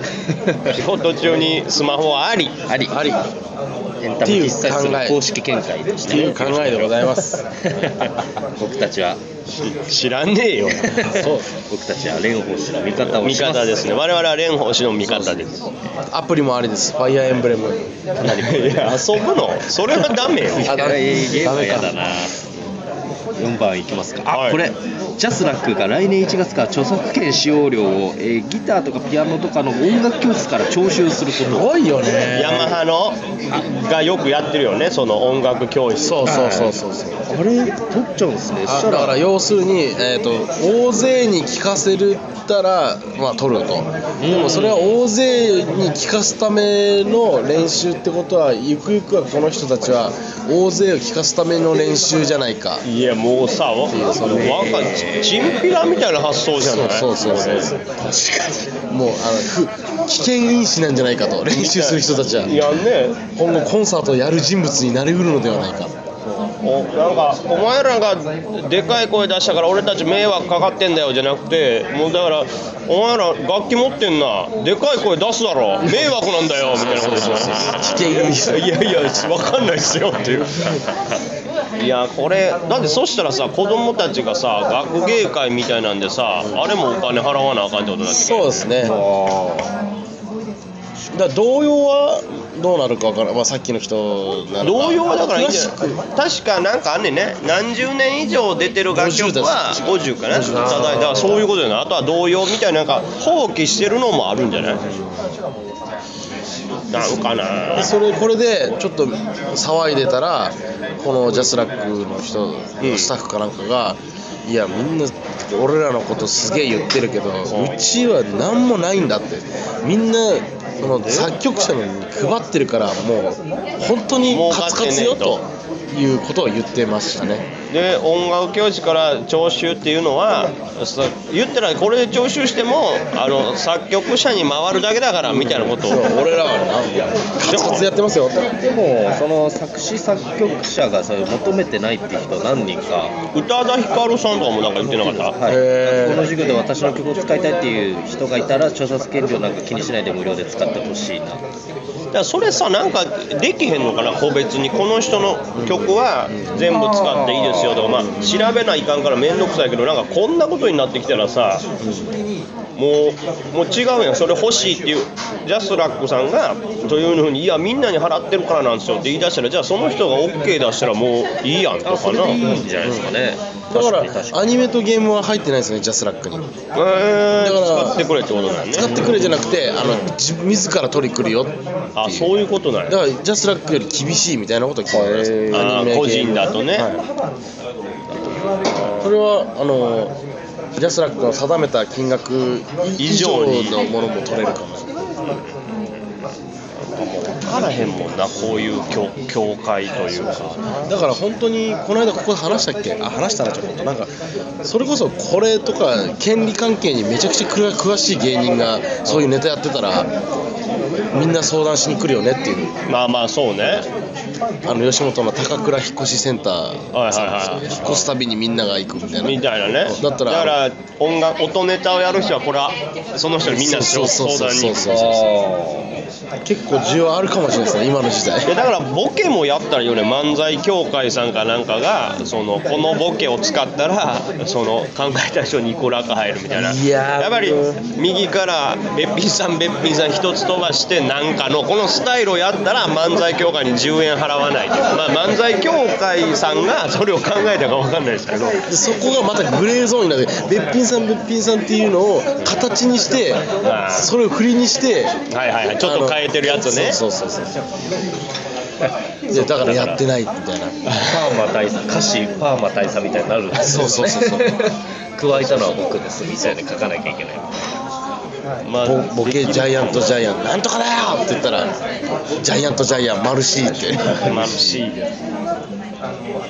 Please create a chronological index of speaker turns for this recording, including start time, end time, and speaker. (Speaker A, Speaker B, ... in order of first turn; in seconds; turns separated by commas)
Speaker A: 0.3-0.7, Speaker B: 0.7-2.6, Speaker A: 2.7-3.0, Speaker C: 2.9-3.2, Speaker A: 4.0-9.2, Speaker C: 4.2-5.2, Speaker C: 6.0-7.4, Speaker B: 9.6-11.0, Speaker A: 10.8-13.9, Speaker C: 11.1-11.4, Speaker B: 13.1-15.6, Speaker C: 16.1-18.9, Speaker B: 18.2-20.9, Speaker A: 20.6-22.3, Speaker C: 20.6-22.0, Speaker A: 23.4-31.7, Speaker B: 24.3-24.6, Speaker C: 31.4-32.8, Speaker B: 32.3-36.5, Speaker C: 36.0-37.2, Speaker A: 36.2-36.7, Speaker A: 37.3-39.2, Speaker C: 38.6-52.8, Speaker A: 44.2-45.0, Speaker B: 52.8-57.7, Speaker C: 53.9-54.8, Speaker A: 54.2-55.4, Speaker C: 56.6-57.9, Speaker A: 58.1-58.6, Speaker C: 58.9-62.7, Speaker B: 61.5-63.2, Speaker C: 63.4-65.9, Speaker B: 66.6-80.8, Speaker C: 76.6-78.7, Speaker B: 81.8-88.8, Speaker C: 88.1-89.0, Speaker A: 88.8-89.7, Speaker C: 91.1-96.0, Speaker B: 94.6-104.8, Speaker C: 98.9-101.3, Speaker A: 100.5-101.2, Speaker C: 104.7-105.3, Speaker B: 106.9-107.9, Speaker C: 107.8-127.5, Speaker B: 112.8-113.1, Speaker B: 117.5-117.8, Speaker B: 120.9-121.3, Speaker B: 124.3-125.4, Speaker B: 127.7-136.1, Speaker C: 135.3-138.5, Speaker B: 137.4-137.9, Speaker A: 138.6-143.1, Speaker B: 143.3-145.3, Speaker A: 144.8-151.4, Speaker C: 145.4-146.3, Speaker B: 152.1-161.6, Speaker C: 155.5-156.7, Speaker A: 156.7-157.8, Speaker C: 157.9-158.2, Speaker C: 161.8-162.1, Speaker B: 162.8-172.6, Speaker A: 171.8-174.5, Speaker C: 173.7-176.4, Speaker B: 176.7-179.2, Speaker C: 177.4-178.0, Speaker C: 178.7-182.3, Speaker B: 181.9-182.9, Speaker C: 182.9-187.0, Speaker A: 184.9-185.9, Speaker B: 185.5-186.9, Speaker A: 188.1-188.6, Speaker B: 188.7-189.1, Speaker C: 189.0-190.1, Speaker C: 190.8-194.9, Speaker B: 193.0-193.8, Speaker B: 196.8-200.6, Speaker C: 200.9-204.1, Speaker C: 204.6-210.1, Speaker C: 211.1-212.7, Speaker B: 212.8-213.8, Speaker C: 214.6-220.6, Speaker B: 216.9-218.1, Speaker B: 219.2-225.1, Speaker C: 223.4-225.3, Speaker A: 224.9-226.0, Speaker C: 226.4-228.5, Speaker B: 228.4-248.6, Speaker C: 236.5-237.8, Speaker C: 248.7-255.1, Speaker B: 253.6-254.1, Speaker B: 255.3-257.0, Speaker C: 255.8-257.6, Speaker C: 259.3-260.8, Speaker A: 259.3-260.0, Speaker B: 260.9-261.2, Speaker A: 261.0-267.6, Speaker C: 263.5-264.7, Speaker B: 268.6-270.2, Speaker C: 268.8-271.7, Speaker C: 272.4-274.9, Speaker B: 274.2-275.0